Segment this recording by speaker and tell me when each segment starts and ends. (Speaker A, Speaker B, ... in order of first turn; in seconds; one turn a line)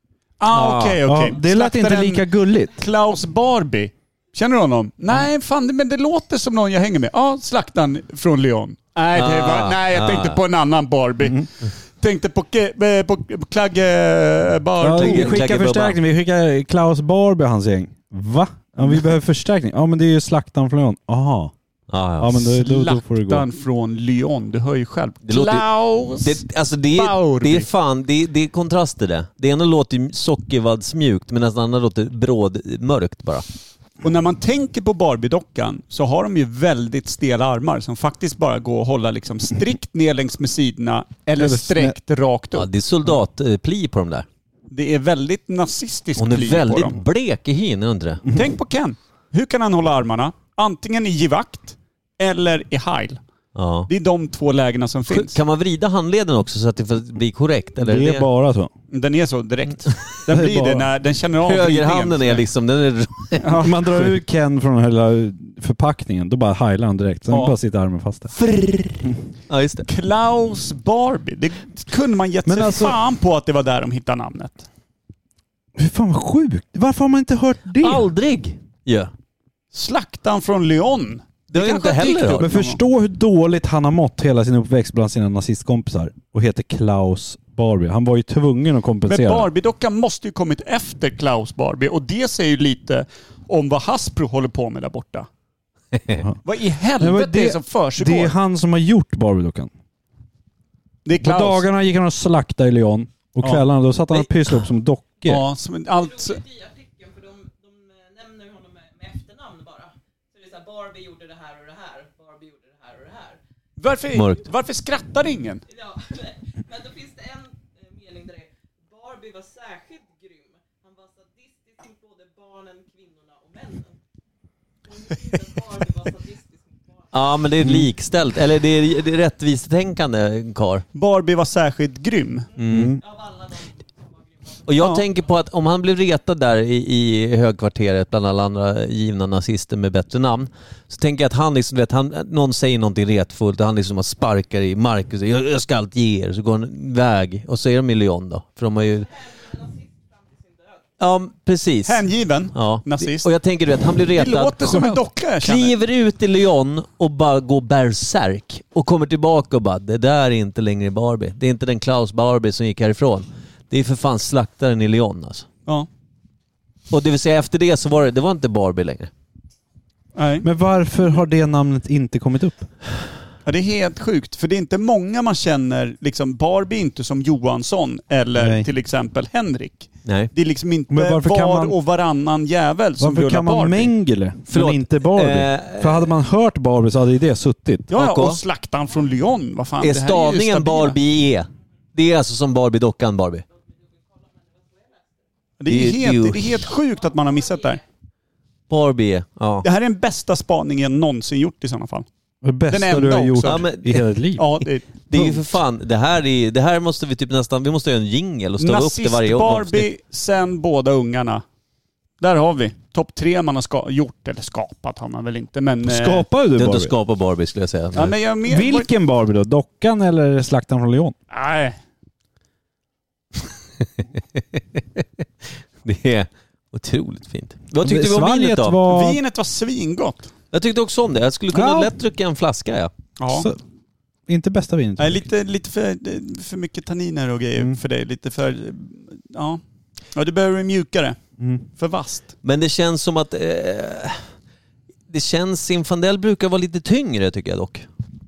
Speaker A: 0.4-15.4
Speaker B: 0.5-1.0
Speaker C: 1.1-2.8
Speaker B: 9.1-10.4
Speaker C: 14.8-21.5
Speaker B: 15.0-16.0
Speaker B: 21.9-22.6
Speaker C: 22.2-23.5
Speaker A: 22.5-27.7
Speaker B: 25.2-33.5
Speaker A: 34.0-42.7
Speaker C: 41.4-42.0
Speaker B: 42.5-44.3
Speaker A: 44.7-47.0
Speaker B: 46.2-48.2
Speaker A: 48.3-53.2
Speaker B: 53.5-53.9
Speaker A: 53.9-55.4
Speaker B: 55.1-58.3
Speaker C: 57.8-58.7
Speaker A: 58.9-62.4
Speaker C: 60.3-60.9
Speaker B: 61.4-63.7
Speaker A: 63.4-63.8
Speaker C: 63.6-68.3
Speaker A: 67.3-67.5
Speaker A: 68.4-69.0
Speaker B: 69.5-69.9
Speaker A: 69.9-74.7
Speaker C: 72.5-73.0
Speaker C: 75.8-78.1
Speaker B: 77.8-79.1
Speaker A: 79.7-82.8
Speaker B: 81.5-82.5
Speaker C: 82.2-89.5
Speaker A: 89.1-95.3
Speaker B: 95.9-96.2
Speaker A: 96.5-98.3
Speaker C: 97.0-99.7
Speaker A: 101.1-101.7
Speaker C: 101.2-105.4
Speaker A: 103.4-104.3
Speaker A: 105.2-106.4
Speaker D: 106.0-113.4
Speaker A: 113.8-115.6
Speaker B: 114.1-114.5
Speaker D: 115.7-124.0
Speaker D: 124.9-127.2
Speaker B: 127.1-130.8
Speaker A: 130.9-132.5
Speaker B: 132.6-133.0
Speaker C: 132.7-133.0
Speaker D: 133.0-134.7
Speaker B: 134.7-149.1
Speaker D: 149.1-150.8
Speaker B: 151.0-165.5
Speaker A: 151.9-153.3
Speaker A: 154.1-155.8
Speaker B: 166.9-169.1
Speaker A: 170.2-170.5
Speaker C: 170.4-172.7
Speaker A: 173.4-183.9
Speaker C: 178.4-178.7
Speaker B: 180.1-180.3
Speaker C: 180.9-181.8
Speaker C: 183.0-187.9
Speaker B: 184.5-186.1
Speaker A: 187.9-191.0
Speaker B: 187.9-188.4
Speaker B: 189.8-193.4
Speaker D: 193.7-195.1
Speaker A: 195.6-197.8
Speaker B: 195.7-196.7
Speaker D: 197.1-197.8
Speaker B: 198.7-199.7
Speaker A: 199.6-202.1
Speaker C: 202.4-204.5
Speaker A: 202.7-203.7
Speaker B: 203.4-204.0
Speaker A: 204.3-205.3
Speaker B: 205.1-209.9
Speaker A: 208.6-211.4
Speaker A: 212.2-216.3
Speaker C: 215.8-216.9
Speaker B: 216.6-218.2
Speaker A: 217.9-218.9
Speaker C: 218.5-221.2
Speaker A: 221.3-221.8
Speaker B: 223.8-225.1
Speaker B: 225.8-228.8
Speaker C: 227.8-229.2
Speaker A: 228.9-230.3
Speaker B: 230.5-232.9
Speaker C: 231.5-231.9
Speaker A: 233.2-233.5
Speaker C: 233.3-233.6
Speaker C: 234.3-235.3
Speaker A: 235.0-239.6
Speaker A: 240.2-241.2
Speaker C: 241.4-241.7
Speaker A: 241.8-242.3
Speaker B: 242.4-244.3
Speaker B: 245.1-247.9